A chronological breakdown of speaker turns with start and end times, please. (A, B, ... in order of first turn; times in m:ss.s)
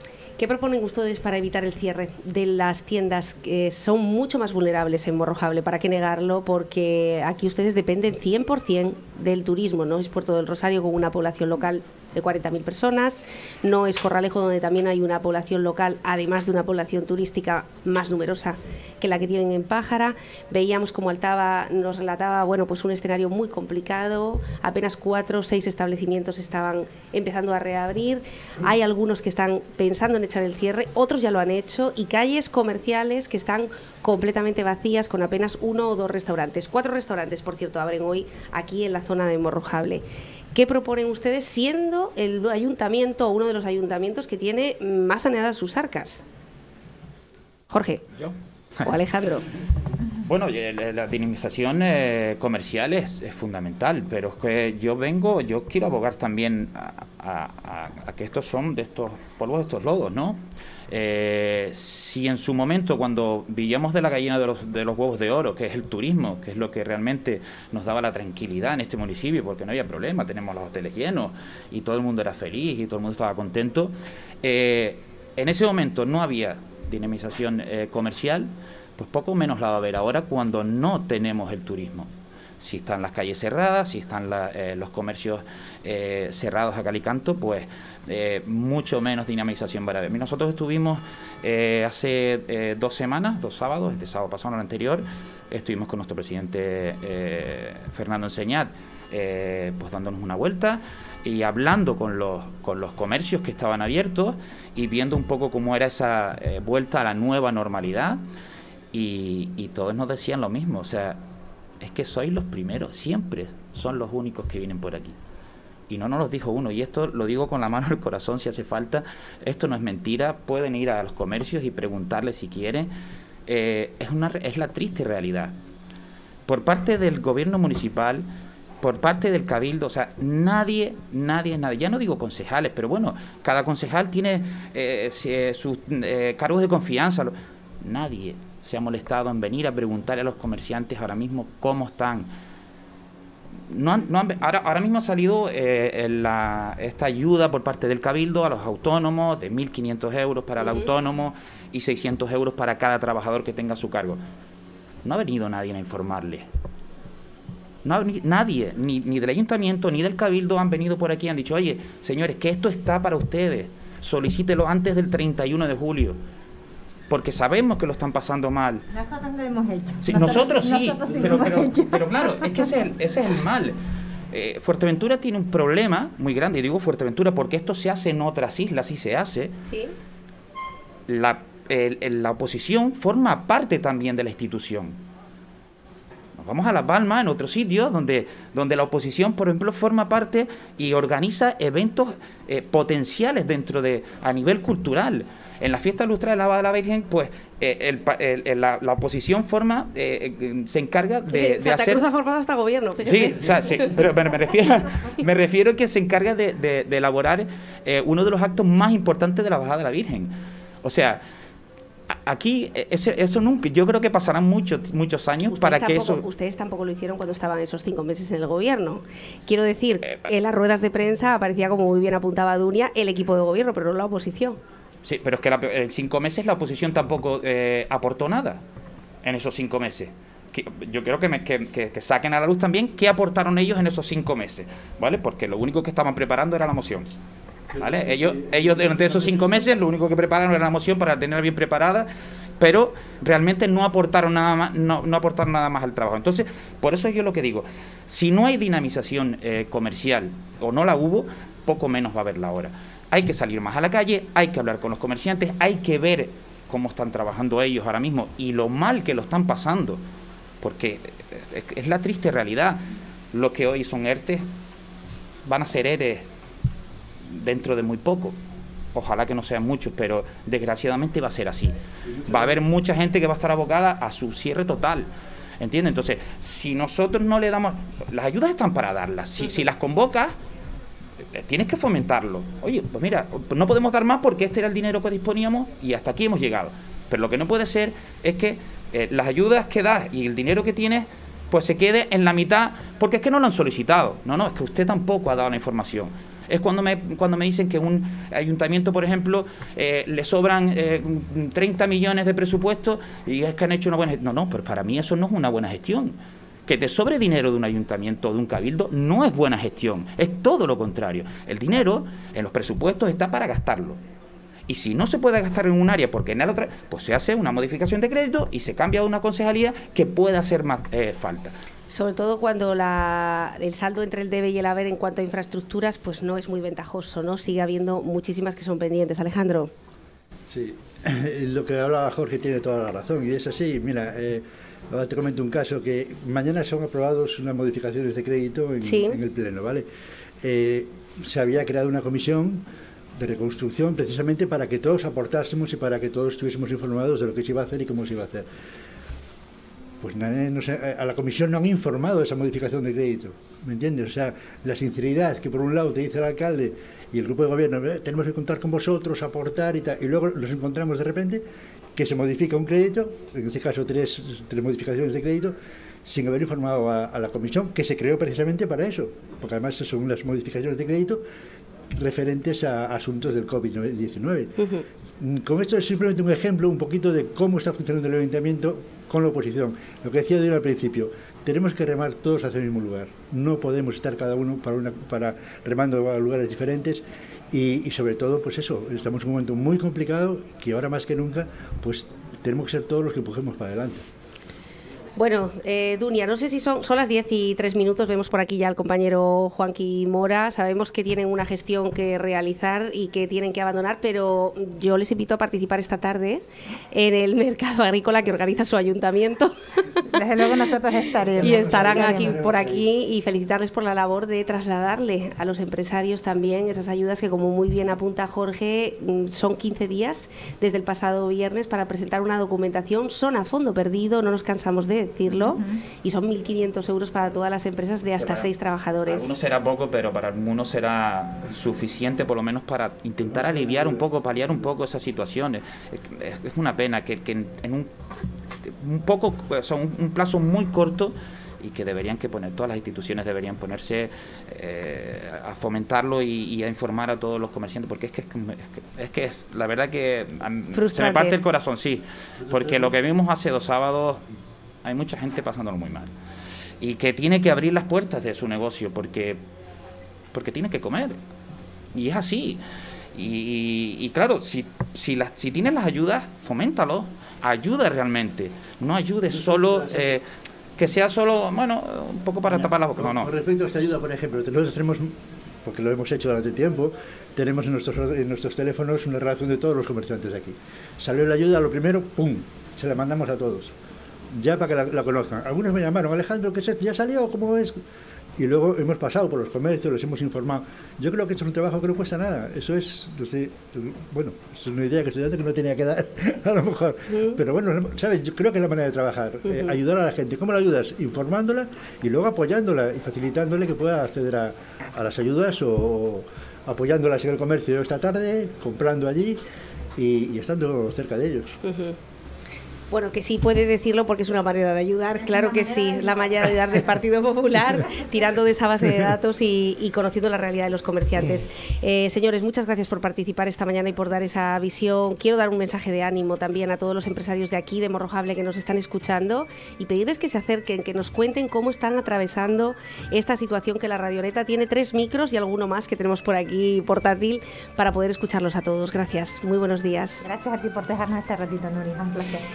0:00.4-0:46.2 A
0:47.7-0:48.0 A
0:48.8-0:49.5 A
0:50.2-1:48.2 B
1:48.9-1:51.2 B
1:51.8-1:55.2 B
1:55.9-2:02.9 B
2:03.4-2:05.5 B
2:06.5-2:08.2 B
2:08.8-2:22.3 B
2:23.7-2:34.2 B
2:30.6-2:30.9 A
2:35.0-2:36.4 B
2:37.8-2:46.2 B
2:47.1-2:48.8 B
2:48.9-2:52.6 C
2:50.0-2:53.7 B
2:54.3-2:59.5 B
2:59.6-2:59.9 A
3:01.1-3:05.0 B
3:06.4-3:22.0 B
3:21.3-3:23.9 A
3:23.0-3:31.2 B
3:32.1-3:36.2 B
3:35.5-3:44.6 A
3:45.0-3:48.6 B
3:49.2-3:57.1 B
3:57.7-3:59.5 D
3:57.8-4:02.1 B
4:02.6-4:20.0 B
4:20.6-4:24.4 B
4:25.4-4:26.2 B
4:27.2-4:28.4 B
4:28.9-4:31.7 B
4:32.1-4:32.5 D
4:32.2-4:35.1 B
4:35.6-4:40.3 B
4:41.3-5:06.1 B
5:06.6-5:14.0 B
5:14.7-5:21.5 B
5:21.9-5:29.7 A
5:30.5-5:39.8 D
5:38.8-5:39.2 A
5:40.4-5:42.6 D
5:43.2-5:48.4 D
5:50.0-6:01.4 D
6:02.0-6:05.5 D
6:06.0-6:11.2 D
6:11.9-6:34.0 D
6:35.2-6:50.1 A
6:50.1-6:52.4 C
6:51.3-6:52.8 D
6:51.4-7:09.3 A
7:05.4-7:05.8 C
7:08.2-7:08.5 B
7:09.0-7:17.9 B
7:13.3-7:14.0 D
7:18.6-7:34.2 B
7:30.7-7:31.4 A
7:32.4-7:32.9 D
7:34.8-7:36.1 B
7:36.8-7:39.4 B
7:40.3-7:41.2 B
7:41.9-7:42.6 B
7:43.1-7:50.2 B
7:49.3-7:50.2 D
7:50.8-7:53.3 B
7:52.5-8:03.7 D
8:04.3-8:07.8 D
8:08.4-8:29.4 D
8:17.1-8:17.4 A
8:19.5-8:19.7 A
8:30.0-8:31.6 D
8:31.6-8:32.0 A
8:32.9-9:00.2 A
8:35.3-8:36.3 C
9:00.2-9:02.5 C